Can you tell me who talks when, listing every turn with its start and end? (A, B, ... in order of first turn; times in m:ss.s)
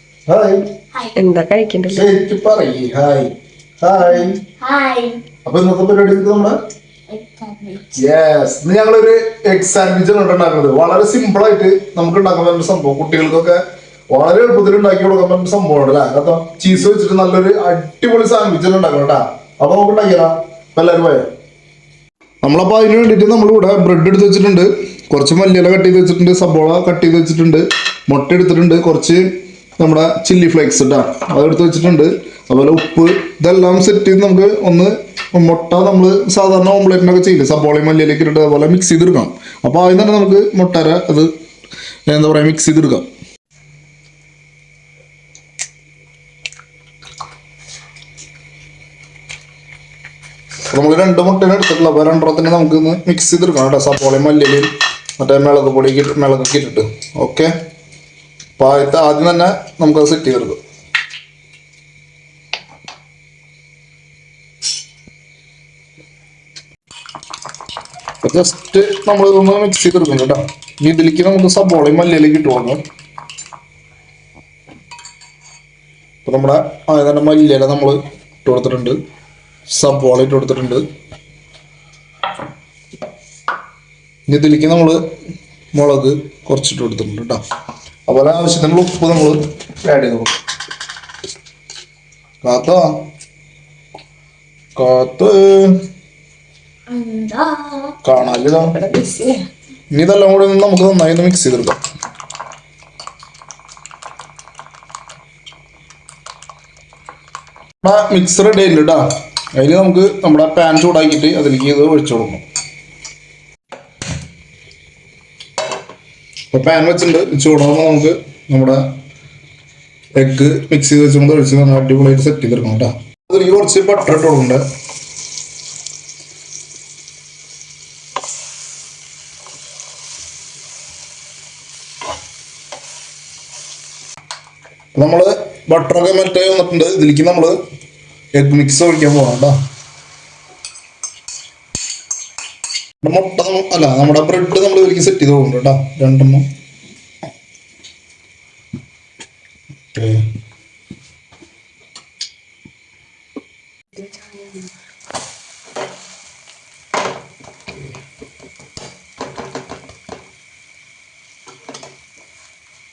0:00.3-0:00.7 A
0:01.2-0:02.0 B
0:01.9-0:04.4 A
0:04.6-0:05.2 C
0:05.4-0:06.6 A
0:07.1-0:07.9 C
0:08.0-0:13.6 A
0:14.1-0:21.3 A
0:22.4-0:29.2 A
0:29.8-0:41.3 A
0:42.1-0:43.1 A
0:50.7-0:57.5 A
0:58.6-1:00.6 A
1:08.2-1:12.8 A
1:16.2-1:19.0 A
1:19.7-1:20.8 A
1:24.3-1:25.0 A
1:25.7-1:27.4 A
1:28.1-1:30.4 A
1:32.4-1:32.9 A
1:34.8-1:35.8 A
1:36.9-1:38.0 C
1:38.0-1:38.7 A
1:38.7-1:39.4 B
1:39.9-1:41.8 A
1:47.8-1:49.0 A
1:49.6-1:52.4 A
1:56.5-1:58.8 A
2:00.2-2:04.6 A
2:15.0-2:17.6 A
2:18.4-2:19.6 A
2:23.0-2:26.4 A
2:29.9-2:30.2 A
2:34.0-2:34.6 B